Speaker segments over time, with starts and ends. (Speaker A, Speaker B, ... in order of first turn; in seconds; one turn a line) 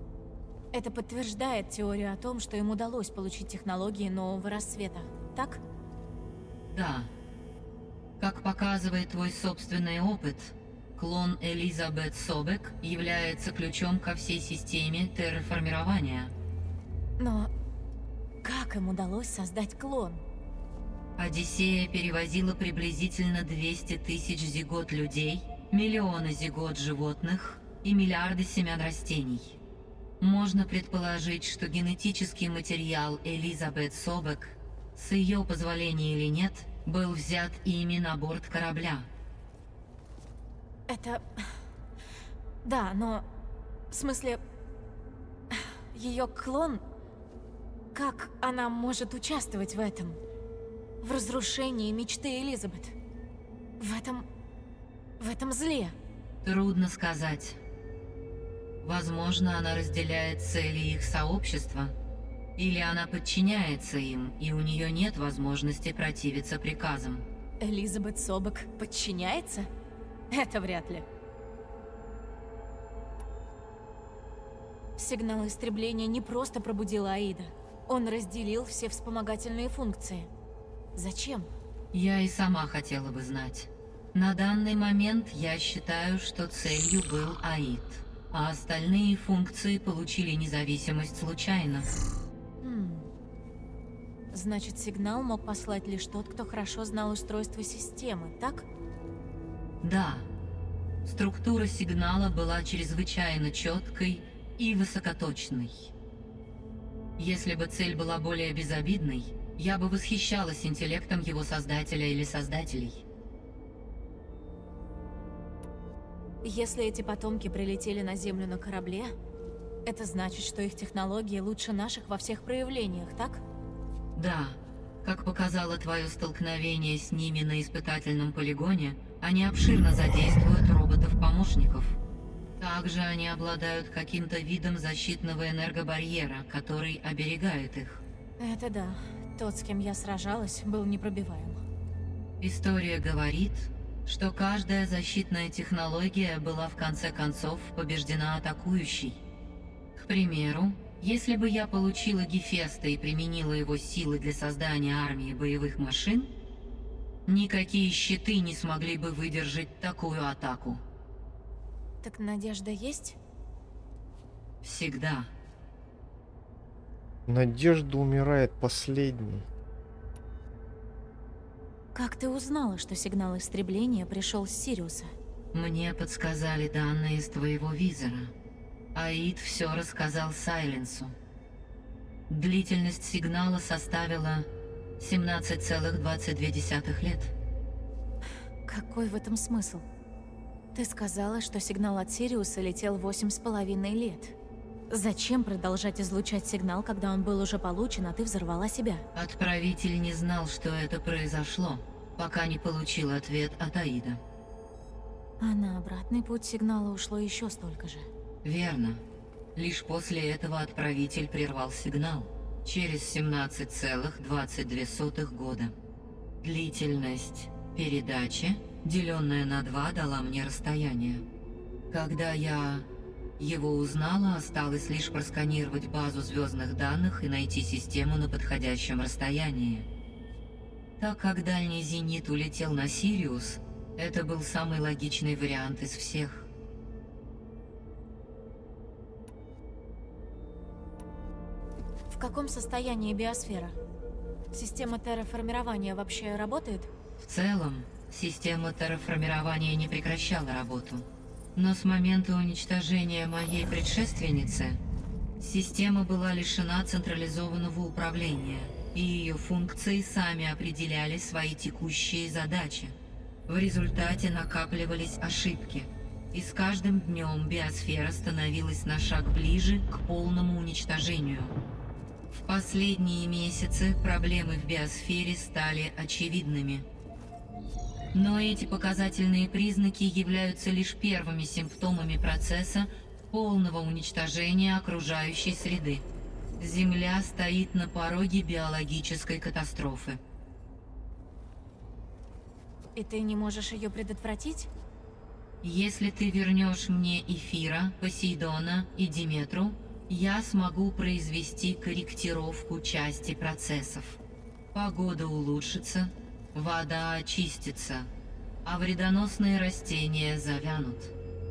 Speaker A: 0.7-5.6
Speaker B: 6.7-7.1
Speaker B: 8.2-16.3
Speaker A: 17.2-17.5
Speaker A: 18.4-20.2
Speaker B: 21.2-29.6
Speaker B: 30.2-39.1
Speaker A: 40.9-41.5
Speaker A: 42.6-43.3
Speaker A: 43.9-44.4
Speaker A: 45.5-46.8
Speaker A: 47.9-50.2
Speaker A: 51.0-53.0
Speaker A: 53.8-54.3
Speaker A: 55.2-56.0
Speaker B: 56.4-57.6
Speaker B: 58.8-62.0
Speaker B: 62.6-67.2
Speaker A: 67.6-69.7
Speaker A: 70.3-71.1
Speaker A: 75.0-80.3
Speaker A: 81.0-81.5
Speaker B: 81.9-91.9
Speaker A: 92.6-93.1
Speaker A: 94.3-98.7
Speaker B: 99.8-100.3
Speaker B: 101.0-105.9
Speaker B: 107.2-113.0
Speaker A: 116.4-119.1
Speaker A: 119.8-123.4
Speaker B: 124.2-132.0
Speaker B: 132.6-138.0
Speaker A: 138.4-141.6
Speaker B: 142.4-149.2
Speaker B: 150.0-156.3
Speaker B: 157.3-160.8
Speaker A: 162.0-163.2
Speaker B: 164.6-165.3
Speaker C: 167.3-169.5
Speaker A: 171.9-175.1
Speaker B: 175.5-178.3
Speaker B: 178.9-181.2
Speaker B: 182.3-187.3
Speaker A: 188.7-189.9
Speaker A: 190.8-194.4
Speaker A: 194.9-199.1
Speaker B: 199.2-204.2
Speaker A: 205.4-208.1
Speaker B: 208.4-209.0
Speaker B: 209.6-215.8
Speaker B: 216.4-221.3
Speaker B: 221.9-222.9
Speaker B: 223.4-229.9
Speaker B: 231.0-236.5
Speaker A: 242.1-243.8
Speaker A: 244.5-246.9
Speaker B: 247.2-254.8
Speaker B: 255.4-263.0
Speaker B: 263.5-271.6
Speaker B: 272.3-276.9
Speaker B: 278.1-286.1
Speaker B: 286.6-290.2
Speaker A: 292.9-294.7
Speaker B: 295.6-304.2
Speaker B: 304.7-308.1
Speaker B: 308.6-311.1